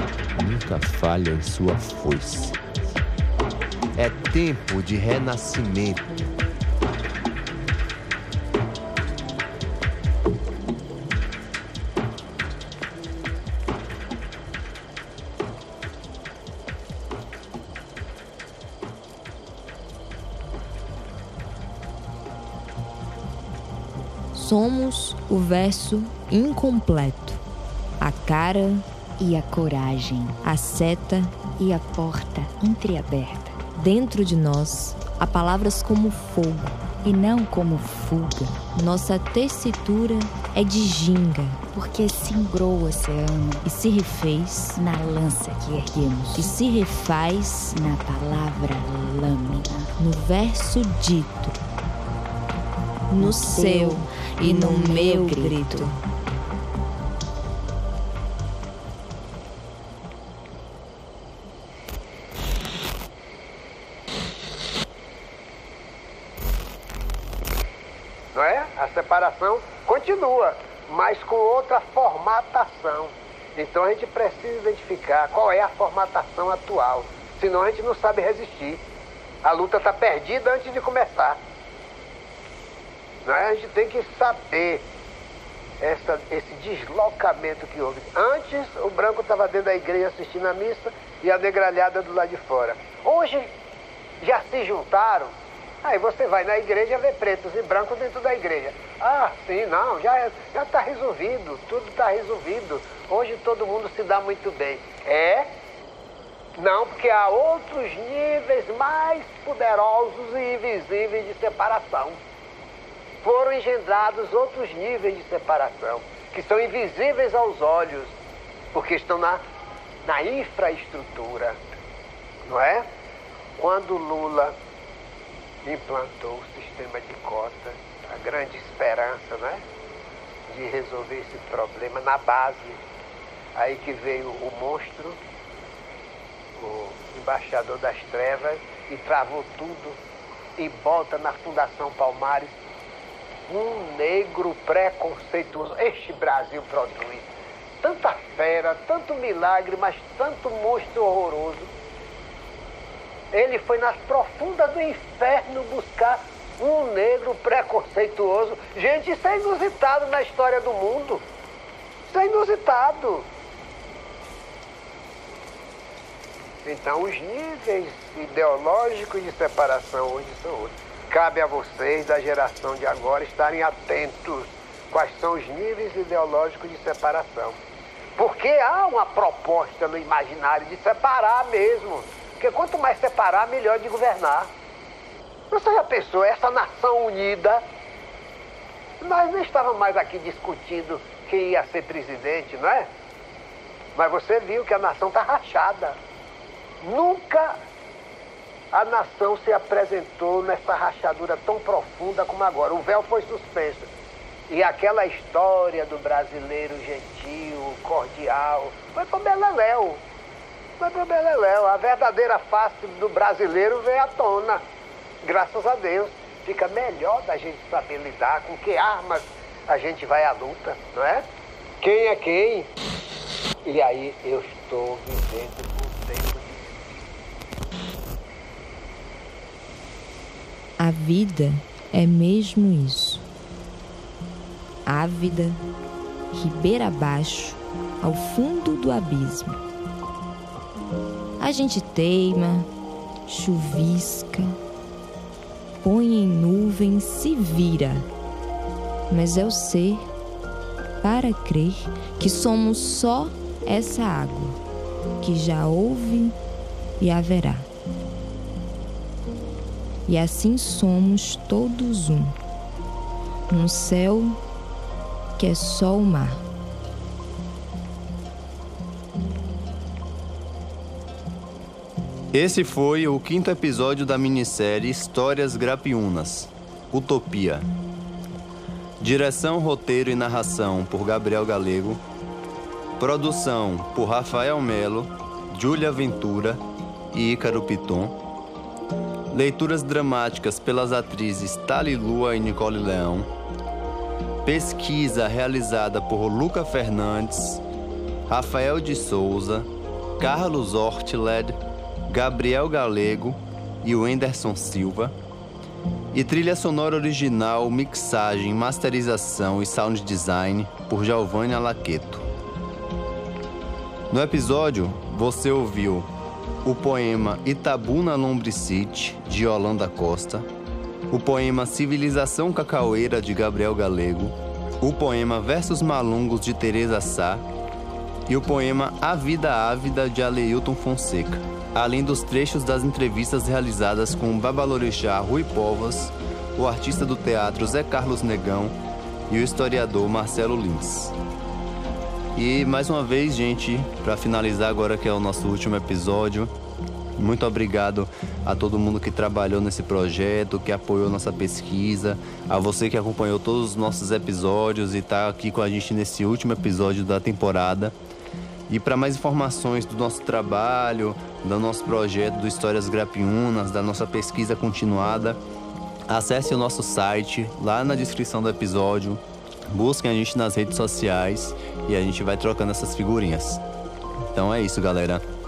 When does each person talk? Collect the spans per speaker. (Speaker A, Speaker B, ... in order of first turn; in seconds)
Speaker A: 0.3-2.5, 4.0-6.1
Speaker B: 24.3-27.4, 28.0-28.8, 30.4-31.4, 33.8-36.8, 38.7-41.6, 43.6-44.8, 46.3-47.7, 50.0-51.5, 53.1-56.0, 230.8-233.2, 234.8-235.6, 236.3-239.6, 241.4-242.7, 243.2-244.6, 245.8-248.1, 249.1-250.1, 251.0-254.6, 255.2-256.3, 257.0-257.7, 260.1-262.3, 263.5-264.4, 265.4-266.4
Speaker C: 29.2-30.4, 31.6-33.6, 37.0-38.6, 41.7-43.6, 44.8-46.5, 47.7-49.9, 53.2-55.9
Speaker D: 68.3-78.8, 79.4-81.4, 83.2-84.8, 85.8-93.5, 94.2-105.5, 106.6-112.2, 113.2-118.1, 118.7-119.4, 120.0-121.8, 122.5-122.8, 123.6-124.5, 125.6-129.6, 130.5-132.8, 133.6-135.2, 136.6-140.0, 140.6-142.6, 143.5-147.3, 147.8-151.7, 153.3-161.2, 162.1-163.3, 166.6-177.6, 178.2-184.5, 185.5-187.6, 189.0-192.9, 193.9-196.0, 196.8-197.6, 198.7-203.9, 204.5-210.0, 210.8-214.6, 215.2-221.2, 221.8-222.7, 223.6-226.7
Speaker E: 272.3-277.7, 279.0-282.0, 283.0-286.6, 287.1-288.2, 289.3-293.3, 294.4-297.6, 298.3-305.1, 306.1-312.3, 314.1-316.1, 316.6-320.5, 321.1-327.4, 328.3-338.7, 339.3-341.1, 342.3-346.5, 347.2-357.9, 358.7-365.4, 366.1-373.6, 374.3-375.2